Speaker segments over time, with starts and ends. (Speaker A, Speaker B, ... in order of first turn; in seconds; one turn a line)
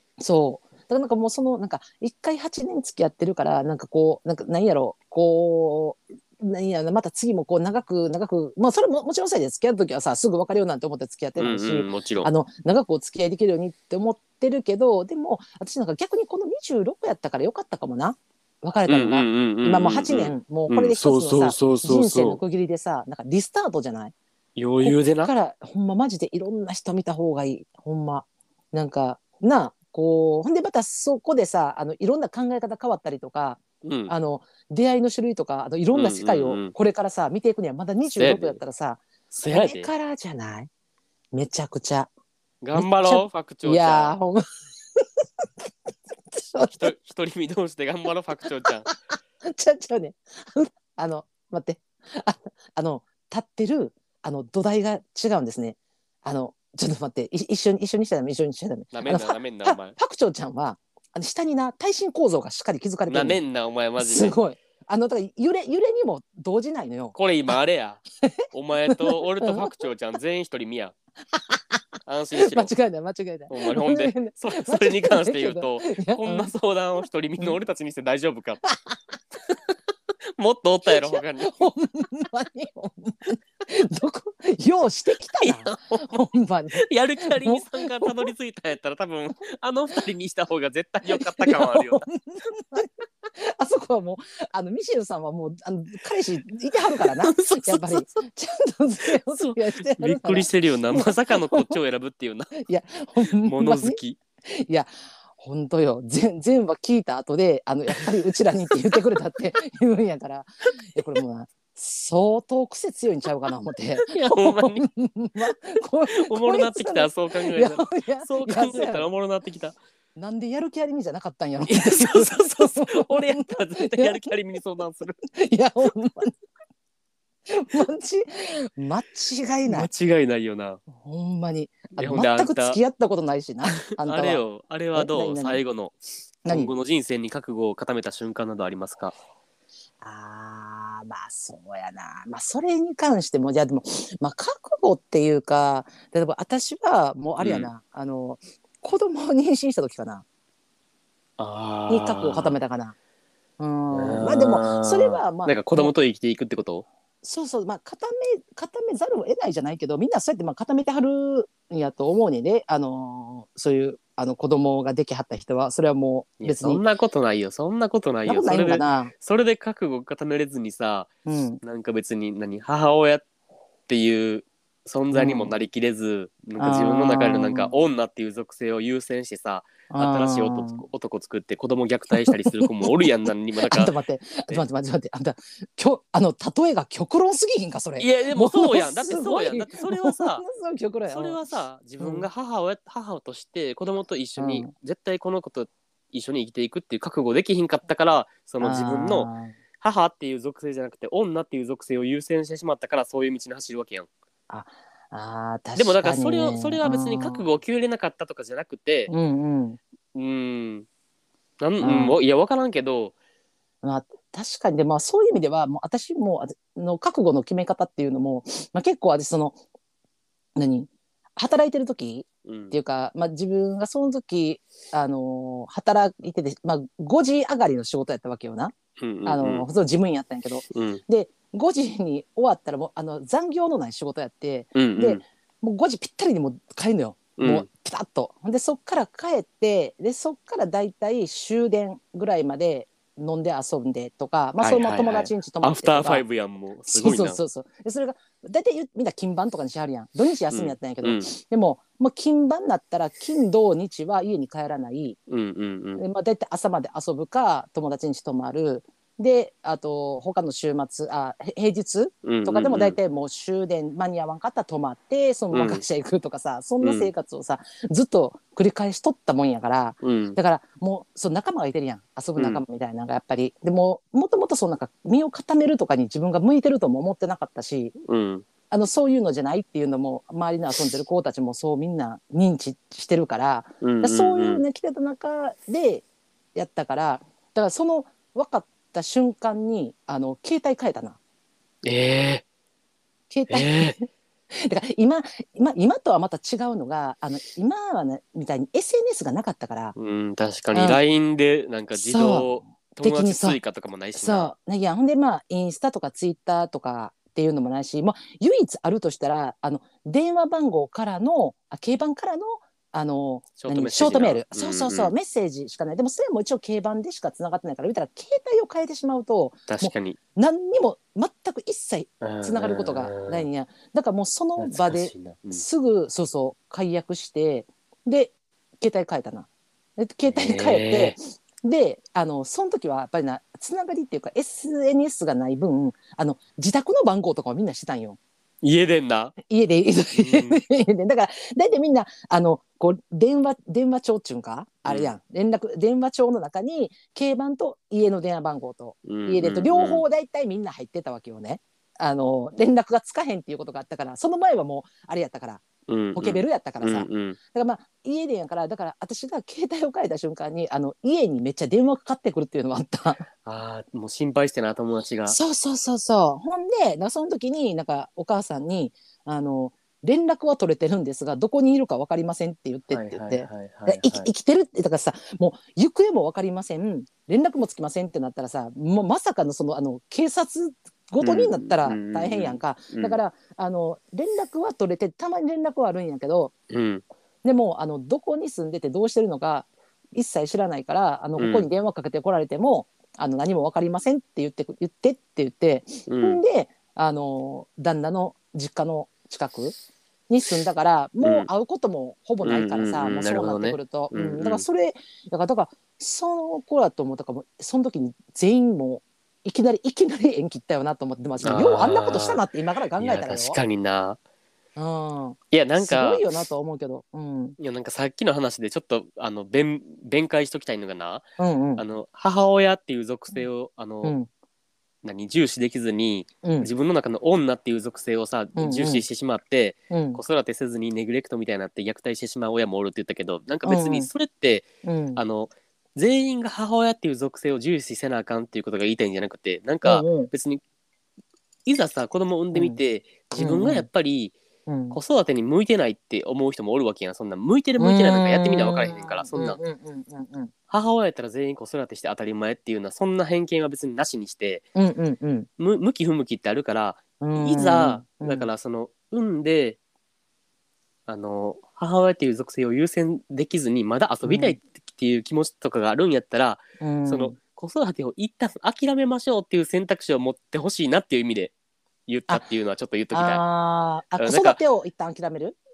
Speaker A: 0.2-24.1
Speaker B: 11.4-12.3
Speaker B: 18.9-22.4
Speaker B: 24.6-25.3
Speaker A: 24.8-40.7
Speaker B: 33.8-34.1
Speaker B: 35.9-36.7
Speaker B: 38.2-38.6
Speaker B: 39.3-39.9
Speaker A: 41.3-42.1
Speaker B: 42.6-44.2
Speaker A: 42.8-44.4
Speaker A: 45.0-45.5
Speaker A: 46.3-46.9
Speaker B: 46.7-48.9
Speaker A: 48.6-63.4
Speaker B: 58.9-60.0
Speaker B: 63.1-64.4
Speaker A: 64.0-67.2
Speaker B: 67.1-71.0
Speaker A: 68.9-69.8
Speaker A: 71.3-71.6
Speaker B: 72.1-72.7
Speaker A: 72.4-76.5
Speaker B: 73.5-78.6
Speaker A: 78.6-79.0
Speaker B: 80.4-81.6
Speaker A: 80.9-88.3
Speaker B: 85.4-86.2
Speaker B: 86.7-92.0
Speaker A: 91.1-101.8
Speaker B: 96.9-98.2
Speaker B: 99.0-102.6
Speaker A: 102.6-119.1
Speaker B: 103.2-104.2
Speaker B: 114.0-114.9
Speaker B: 116.1-119.8
Speaker A: 120.2-124.4
Speaker B: 121.7-125.2
Speaker A: 125.3-126.3
Speaker A: 127.5-129.9
Speaker B: 129.7-130.8
Speaker A: 130.9-135.6
Speaker B: 132.0-132.8
Speaker B: 134.0-139.1
Speaker A: 136.4-136.7
Speaker A: 140.0-150.2
Speaker B: 147.4-147.7
Speaker B: 151.4-152.6
Speaker A: 151.9-152.9
Speaker A: 153.6-155.9
Speaker B: 153.9-156.9
Speaker A: 157.2-166.8
Speaker B: 166.4-171.1
Speaker A: 168.3-169.1
Speaker A: 171.2-171.6
Speaker B: 171.6-173.2
Speaker B: 173.9-183.9
Speaker A: 175.1-175.5
Speaker A: 176.6-177.8
Speaker A: 179.9-180.8
Speaker A: 182.1-191.4
Speaker B: 188.0-190.4
Speaker B: 191.1-204.1
Speaker A: 192.0-192.3
Speaker A: 194.4-194.7
Speaker A: 198.6-199.6
Speaker A: 204.5-207.5
Speaker B: 205.8-209.1
Speaker A: 209.1-209.8
Speaker B: 210.1-210.9
Speaker B: 211.6-213.1
Speaker A: 211.8-212.2
Speaker A: 213.8-219.6
Speaker A: 220.6-246.2
Speaker B: 222.4-222.7
Speaker B: 229.0-229.7
Speaker B: 230.7-231.0
Speaker B: 234.8-235.2
Speaker B: 237.4-237.7
Speaker B: 244.6-247.4
Speaker A: 246.9-255.2
Speaker B: 250.5-251.3
Speaker B: 255.3-256.0
Speaker A: 256.0-277.9
Speaker B: 262.2-263.0
Speaker B: 265.5-265.8
Speaker B: 266.8-267.1
Speaker B: 270.0-270.4
Speaker B: 272.4-272.6
Speaker B: 278.0-278.4
Speaker A: 278.7-291.2
Speaker B: 283.8-284.6
Speaker B: 291.8-292.4
Speaker A: 293.3-299.9
Speaker B: 293.5-293.9
Speaker B: 299.9-304.5
Speaker A: 300.7-301.0
Speaker A: 301.9-303.6
Speaker A: 304.2-338.2
Speaker B: 313.6-315.1
Speaker B: 319.7-320.2
Speaker B: 322.2-323.5
Speaker B: 324.6-325.6
Speaker B: 330.3-331.2
Speaker B: 338.6-339.4
Speaker A: 339.5-363.3
Speaker B: 340.2-340.6
Speaker B: 344.9-345.1
Speaker B: 349.1-350.0
Speaker B: 355.9-357.4
Speaker B: 363.4-365.4
Speaker A: 365.3-386.5
Speaker B: 372.9-374.3
Speaker B: 381.2-383.2
Speaker B: 386.7-387.0
Speaker A: 387.4-399.8
Speaker B: 391.4-391.7
Speaker B: 396.1-396.4
Speaker A: 400.3-413.6
Speaker B: 401.2-401.5
Speaker B: 402.4-404.6
Speaker B: 411.4-412.4
Speaker B: 413.0-414.2
Speaker A: 414.8-417.6
Speaker B: 415.5-416.2
Speaker B: 417.6-424.1
Speaker A: 421.4-421.8
Speaker A: 424.0-424.3
Speaker B: 425.0-440.6
Speaker A: 426.4-426.7
Speaker A: 428.6-429.1
Speaker A: 429.9-430.2
Speaker A: 433.6-434.1
Speaker A: 434.8-435.2
Speaker A: 439.8-440.3
Speaker B: 441.7-444.4
Speaker A: 442.5-442.8
Speaker A: 443.3-443.9
Speaker A: 444.7-445.0
Speaker B: 444.9-449.6
Speaker A: 447.8-450.5
Speaker B: 450.7-454.7
Speaker A: 454.8-455.5
Speaker B: 455.6-459.8
Speaker A: 457.2-458.5
Speaker B: 461.1-471.5
Speaker A: 464.2-464.6
Speaker A: 466.8-467.4
Speaker B: 472.1-473.4
Speaker A: 473.1-475.6
Speaker B: 474.2-474.6